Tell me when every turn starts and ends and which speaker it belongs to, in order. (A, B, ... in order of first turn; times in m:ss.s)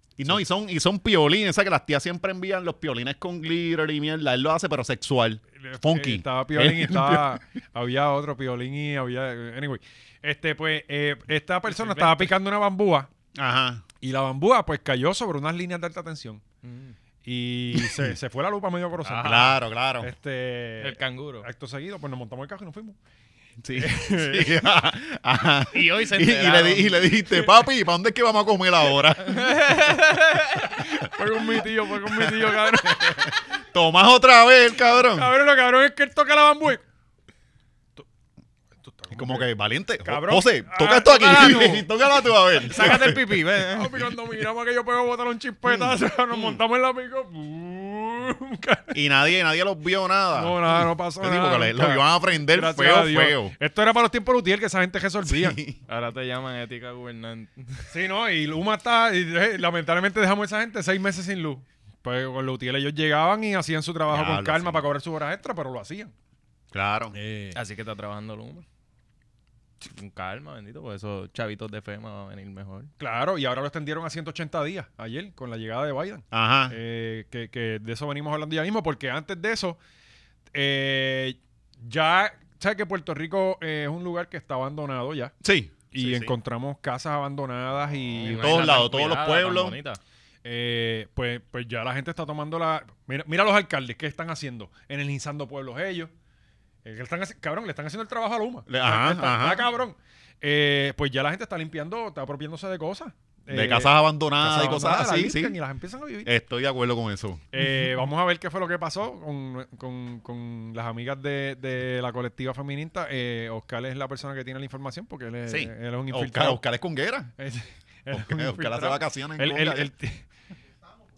0:00.2-0:07.4 A
0:05.6-0:13.1 B
0:11.7-0:12.3 C
0:13.3-0:13.8 A
0:14.0-0:16.4 B
0:16.6-0:16.9 C
0:17.2-0:23.0 B
0:17.7-0:18.1 A
0:19.0-0:19.5 C
0:19.2-0:20.1 A
0:20.8-0:21.4 C
0:23.6-0:29.6 A
0:23.8-0:24.6 B
0:25.7-0:27.1 C
0:29.2-0:30.8 C
0:30.8-0:33.3 B
0:31.3-0:35.3 A
0:35.1-0:36.8 B
0:38.8-0:39.5 B
0:39.1-0:43.2 A
0:40.0-0:41.8 B
0:41.2-0:41.8 C
0:42.6-0:44.0 C
0:42.8-0:43.1 B
0:43.7-0:49.0 B
0:45.6-0:46.6 A
0:48.9-0:53.5 A
0:50.3-0:55.6 B
0:55.2-0:55.8 A
0:55.9-0:57.9 C
0:57.9-1:06.1 B
1:04.1-1:04.8 A
1:06.7-1:07.1 A
1:07.1-1:07.6 B
1:07.5-1:08.6 C
1:09.8-1:12.9 C
1:13.0-1:19.8 B
1:16.3-1:16.7 A
1:20.5-1:25.3 B
1:25.4-1:26.3 A
1:25.9-1:28.7 B
1:28.2-1:30.0 C
1:28.3-1:29.8 A
1:30.4-1:36.1 B
1:36.8-1:46.3 B
1:38.7-1:39.6 A
1:43.5-1:45.6 A
1:46.2-1:47.4 A
1:47.5-1:56.6 B
1:55.5-1:57.3 A
1:57.4-2:00.2 B
1:58.1-1:59.9 A